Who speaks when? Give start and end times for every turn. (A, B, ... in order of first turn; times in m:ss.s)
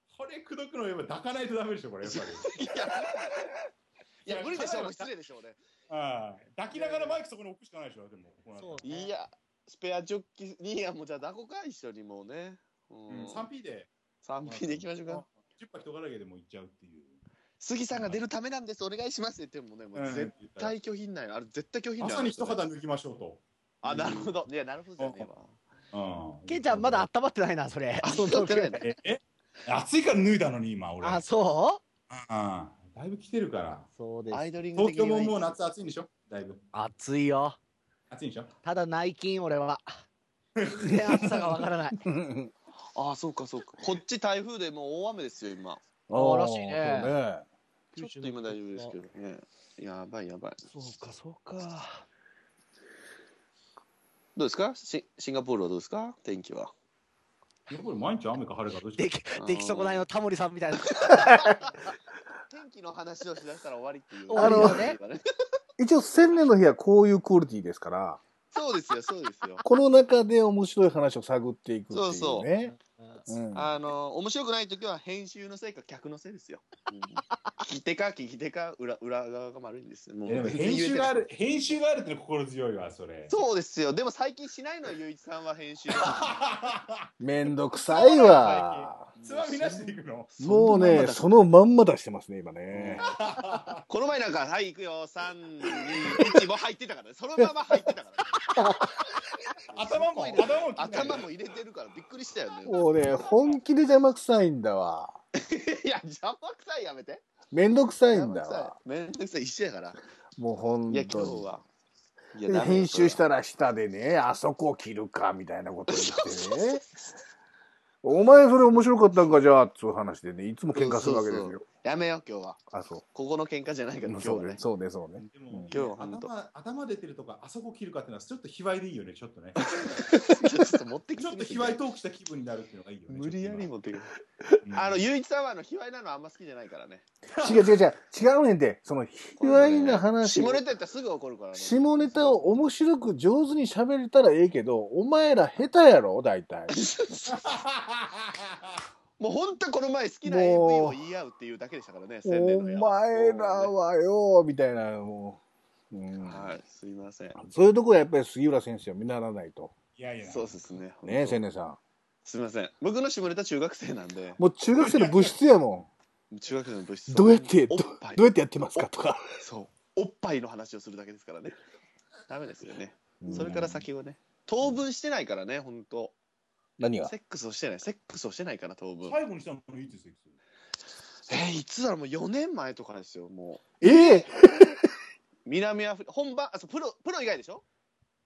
0:00.1-0:02.5 A
0:02.0-0:03.5 B
0:04.2-0:05.1 A
0:04.2-0:05.6 B
0:05.9-0:08.8 A
0:06.7-0:07.2 B
0:08.6-0:09.1 C
0:08.8-0:13.4 B
0:13.1-0:13.9 A
0:14.2-0:15.2 B
0:14.4-0:17.2 A
0:17.6-0:22.6 B
0:17.9-0:18.2 A
0:19.9-0:20.7 A
0:22.0-0:24.3 A
0:23.8-0:25.6 B
0:25.0-0:25.3 A
0:25.9-0:27.1 A
0:26.5-0:28.8 C
0:28.0-0:28.9 B
0:28.8-0:31.2 A
0:31.0-0:31.8 C
0:32.1-0:33.9 A
0:34.0-0:34.4 C
0:34.3-0:35.6 B
0:34.8-0:36.6 A
0:36.7-0:37.6 C
0:38.1-0:38.5 A
0:38.6-0:39.8 C
0:40.6-0:41.4 A
0:40.6-0:42.0 C
0:42.0-0:42.5 D
0:42.9-0:45.8 B
0:46.1-0:47.4 D
0:46.1-0:47.1 C
0:47.9-0:50.6 B
0:48.0-0:48.9 C
0:50.7-0:52.1 C
0:54.4-0:56.7 B
0:57.7-0:59.1 A
0:59.0-1:01.4 C
0:59.4-1:00.0 B
1:01.0-1:01.8 B
1:02.5-1:05.2 B
1:04.3-1:05.0 C
1:04.3-1:04.8 D
1:05.8-1:08.2 D
1:08.5-1:09.6 B
1:09.6-1:12.7 D
1:11.9-1:12.5 B
1:12.6-1:13.2 C
1:13.2-1:13.7 D
1:13.5-1:21.1 B
1:20.2-1:23.4 A
1:23.3-1:26.2 B
1:26.0-1:27.1 A
1:27.2-1:29.1 D
1:27.8-1:30.3 A
1:29.2-1:31.3 B
1:30.4-1:33.1 D
1:32.7-1:33.2 B
1:32.9-1:33.8 A
1:33.9-1:38.6 B
1:39.7-1:43.3 B
1:39.8-1:41.3 A
1:42.6-1:45.2 D
1:45.4-1:47.2 B
1:47.5-1:48.8 D
1:48.1-1:50.0 B
1:50.4-1:51.4 D
1:50.9-1:51.6 B
1:52.3-1:53.2 B
1:52.4-1:56.8 D
1:55.9-1:56.8 B
1:58.0-2:01.6 D
2:00.7-2:02.6 B
2:02.7-2:03.0 D
2:03.1-2:04.6 B
2:04.0-2:05.7 D
2:05.2-2:10.1 A
2:05.7-2:06.3 B
2:09.7-2:11.8 B
2:11.2-2:13.7 A
2:13.1-2:14.1 B
2:14.6-2:15.1 A
2:14.7-2:17.0 B
2:17.4-2:17.7 A
2:17.4-2:20.6 D
2:19.4-2:22.6 B
2:21.6-2:26.8 D
2:26.7-2:27.6 B
2:27.3-2:28.7 A
2:29.2-2:33.7 B
2:30.2-2:31.0 D
2:32.2-2:35.4 D
2:35.9-2:36.6 D
2:36.2-2:37.4 B
2:37.4-2:39.7 D
2:40.0-2:40.6 A
2:40.2-2:41.4 B
2:41.0-2:41.8 D
2:42.2-2:45.0 B
2:44.4-2:45.9 D
2:46.3-2:48.2 B
2:47.1-2:49.2 D
2:49.4-2:51.6 B
2:52.3-2:56.1 B
2:53.2-2:53.8 D
2:53.3-2:53.7 A
2:56.8-2:57.1 D
2:57.1-2:59.2 B
2:59.1-3:00.4 A
3:01.3-3:04.2 B
3:03.8-3:04.8 D
3:05.4-3:07.6 B